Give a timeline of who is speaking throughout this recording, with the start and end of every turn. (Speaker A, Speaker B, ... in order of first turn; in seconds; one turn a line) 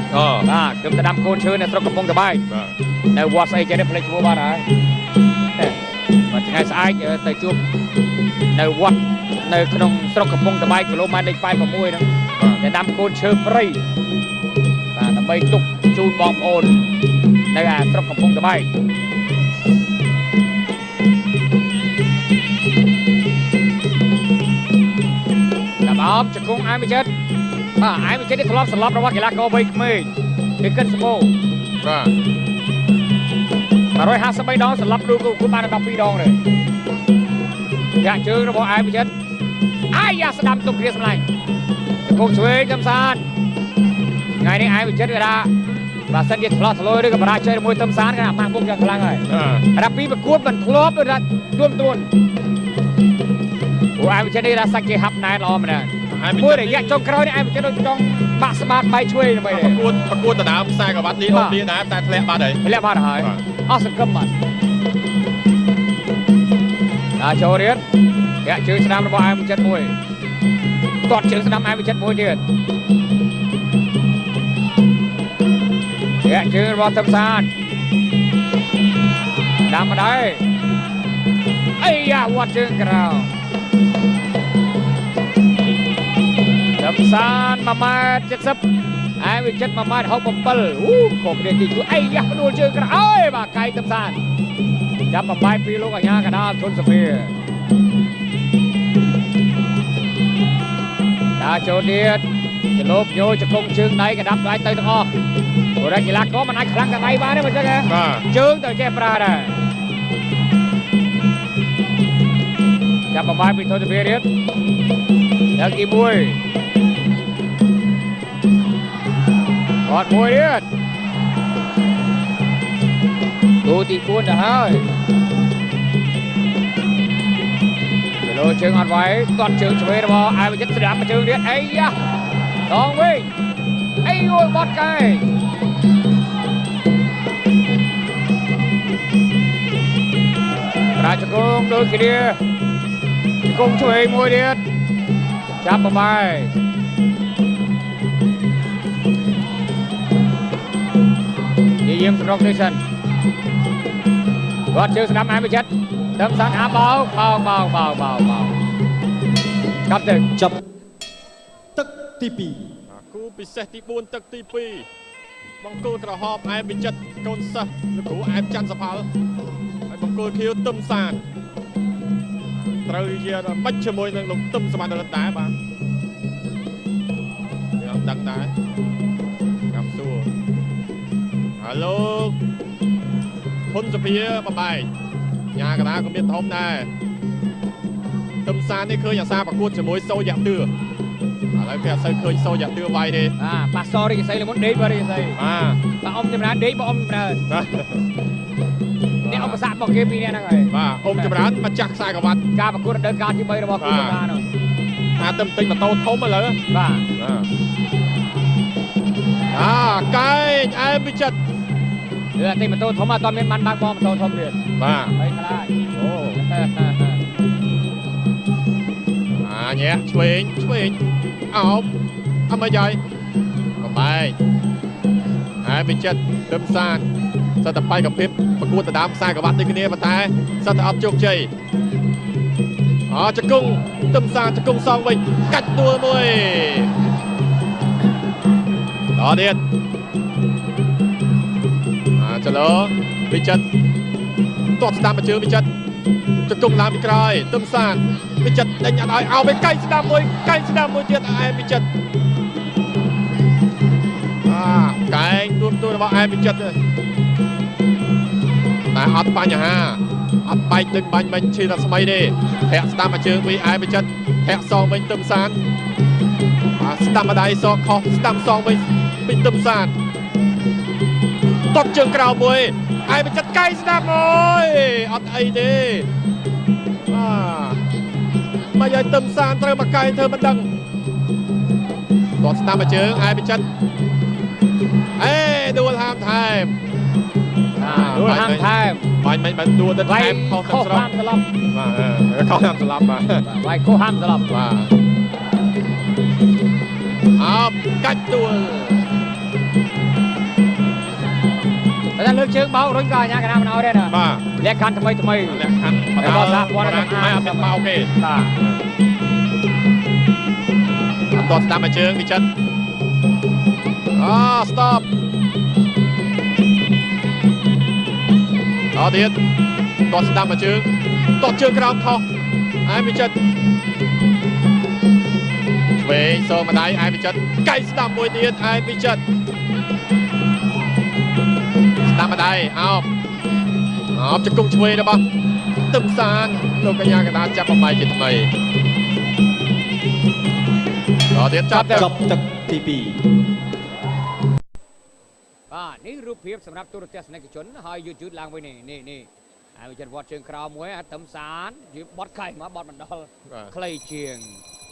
Speaker A: 0.1-0.5
Speaker B: 0.4-2.4
Speaker B: 3.1-4.7
Speaker B: 6.3-7.6
Speaker B: 8.5-12.1
Speaker B: 12.6-13.8
Speaker B: 14.9-17.0
Speaker B: 17.5-18.7
Speaker B: 25.8-27.1
Speaker B: 27.8-31.3
Speaker A: 31.8-32.1
Speaker B: 33.9-36.4
Speaker B: 38.0-39.1
Speaker B: 39.9-41.3
Speaker B: 42.0-43.2
Speaker B: 44.4-45.5
Speaker B: 46.1-52.1
Speaker A: 49.3-49.6
Speaker B: 54.0-59.8
Speaker A: 56.1-57.0
Speaker A: 59.5-62.6
Speaker B: 61.3-61.6
Speaker B: 62.6-64.3
Speaker B: 67.2-67.8
Speaker B: 68.4-70.0
Speaker B: 71.0-72.4
Speaker B: 76.2-77.5
Speaker B: 79.7-80.5
Speaker B: 81.8-83.3
Speaker B: 86.8-88.6
Speaker B: 89.2-94.2
Speaker B: 95.1-97.3
Speaker B: 101.4-105.1
Speaker B: 105.8-109.6
Speaker A: 107.9-108.3
Speaker B: 113.1-114.3
Speaker B: 115.5-116.4
Speaker B: 119.8-120.7
Speaker B: 123.6-124.9
Speaker B: 128.2-131.9
Speaker B: 132.7-133.3
Speaker B: 134.0-135.3
Speaker B: 141.0-142.4
Speaker B: 143.4-144.6
Speaker B: 145.6-146.5
Speaker B: 151.8-152.8
Speaker B: 154.7-158.6
Speaker B: 159.9-160.3
Speaker C: 160.4-160.6
Speaker C: 161.7-162.7
Speaker A: 162.9-164.9
Speaker A: 165.6-169.1
Speaker A: 169.9-171.2
Speaker A: 172.6-175.5
Speaker A: 177.8-178.5
Speaker A: 179.7-180.3
Speaker A: 181.6-182.4
Speaker A: 183.7-184.9
Speaker A: 185.6-186.9
Speaker A: 188.4-190.7
Speaker A: 191.6-193.3
Speaker B: 193.4-195.4
Speaker A: 195.4-195.8
Speaker B: 195.9-197.4
Speaker A: 197.5-198.0
Speaker A: 199.2-199.6
Speaker B: 199.3-201.3
Speaker A: 200.7-202.4
Speaker B: 202.6-204.5
Speaker A: 203.8-204.2
Speaker A: 205.2-206.6
Speaker B: 206.7-207.1
Speaker A: 207.2-207.5
Speaker A: 209.5-211.4
Speaker B: 212.3-214.6
Speaker A: 214.8-215.2
Speaker B: 215.2-215.7
Speaker A: 216.0-216.4
Speaker B: 216.4-217.2
Speaker A: 219.4-221.0
Speaker A: 221.5-221.9
Speaker A: 222.5-223.0
Speaker A: 223.8-224.4
Speaker A: 225.6-227.1
Speaker A: 227.6-231.5
Speaker A: 233.1-236.9
Speaker A: 239.2-239.6
Speaker A: 242.2-243.6
Speaker A: 244.8-245.7
Speaker A: 246.5-251.9
Speaker A: 254.4-256.8
Speaker A: 258.9-265.6
Speaker A: 266.8-270.0
Speaker A: 271.7-276.1
Speaker A: 277.1-277.8
Speaker A: 278.7-280.7
Speaker A: 282.4-283.6
Speaker A: 285.2-286.8
Speaker B: 287.8-289.1
Speaker A: 287.8-288.7
Speaker A: 289.2-291.1
Speaker B: 290.0-291.5
Speaker A: 291.7-293.4
Speaker B: 293.4-294.5
Speaker A: 294.5-294.9
Speaker A: 297.4-299.0
Speaker B: 302.2-305.6
Speaker A: 304.1-304.4
Speaker A: 305.4-308.8
Speaker B: 306.2-308.6
Speaker A: 311.3-312.5
Speaker A: 314.1-315.1
Speaker A: 318.9-319.4
Speaker A: 320.1-322.2
Speaker A: 322.9-323.4
Speaker A: 326.0-329.2
Speaker A: 332.1-333.1
Speaker A: 334.1-335.2
Speaker A: 335.9-338.5
Speaker A: 341.3-342.1
Speaker B: 341.7-342.1
Speaker C: 341.9-343.2
Speaker B: 345.7-354.6